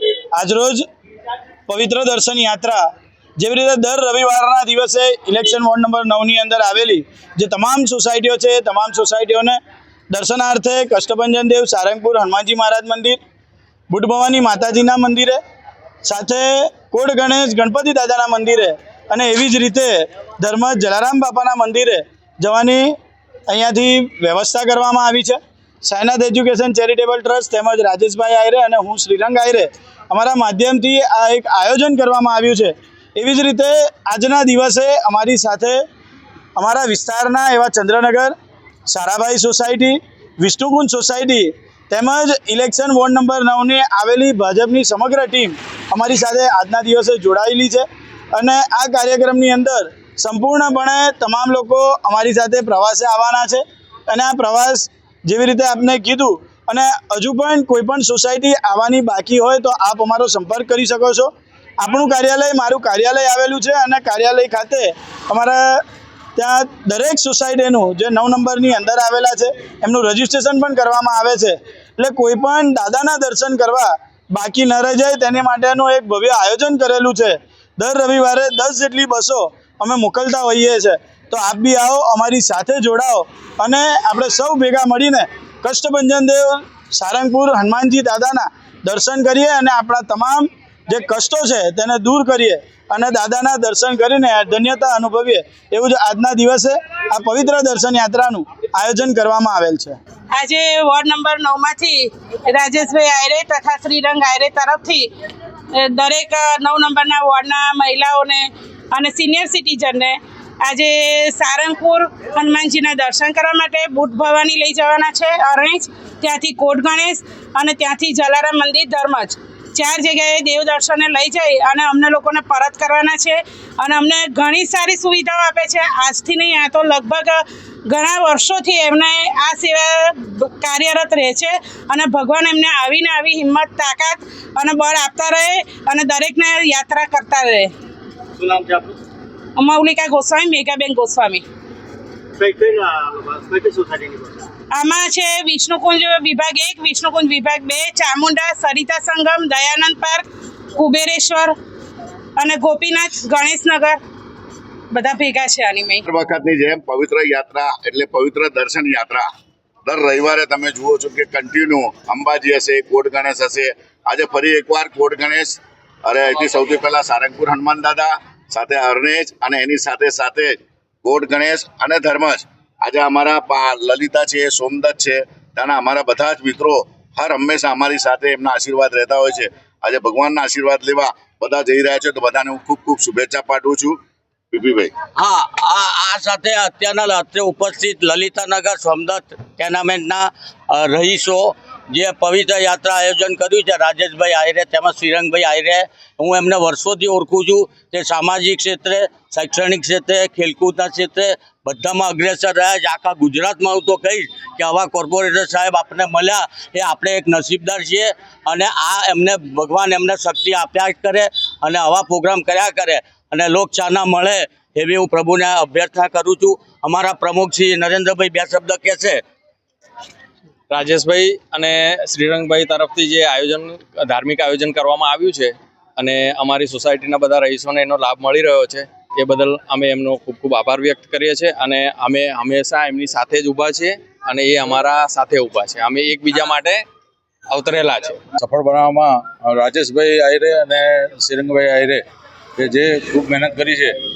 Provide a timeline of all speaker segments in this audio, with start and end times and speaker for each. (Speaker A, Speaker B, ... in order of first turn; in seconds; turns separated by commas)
Speaker A: 0.3-0.8, Speaker A: 1.7-2.8, Speaker A: 3.4-9.6, Speaker A: 10.1-13.2, Speaker A: 13.9-15.4, Speaker A: 16.0-22.9, Speaker A: 23.5-35.8, Speaker A: 36.6-38.3, Speaker A: 38.9-65.8, Speaker A: 66.3-100.0, Speaker B: 100.3-105.1, Speaker B: 105.7-137.7, Speaker C: 138.4-138.9, Speaker B: 139.6-141.4, Speaker C: 142.4-144.4, Speaker B: 144.7-151.5, Speaker B: 152.4-154.0, Speaker B: 154.9-156.0, Speaker D: 156.1-159.3, Speaker D: 159.8-184.0, Speaker D: 184.5-184.9, Speaker E: 185.1-219.2, Speaker F: 220.7-236.8, Speaker F: 237.5-238.2, Speaker G: 238.4-242.0, Speaker G: 242.6-243.9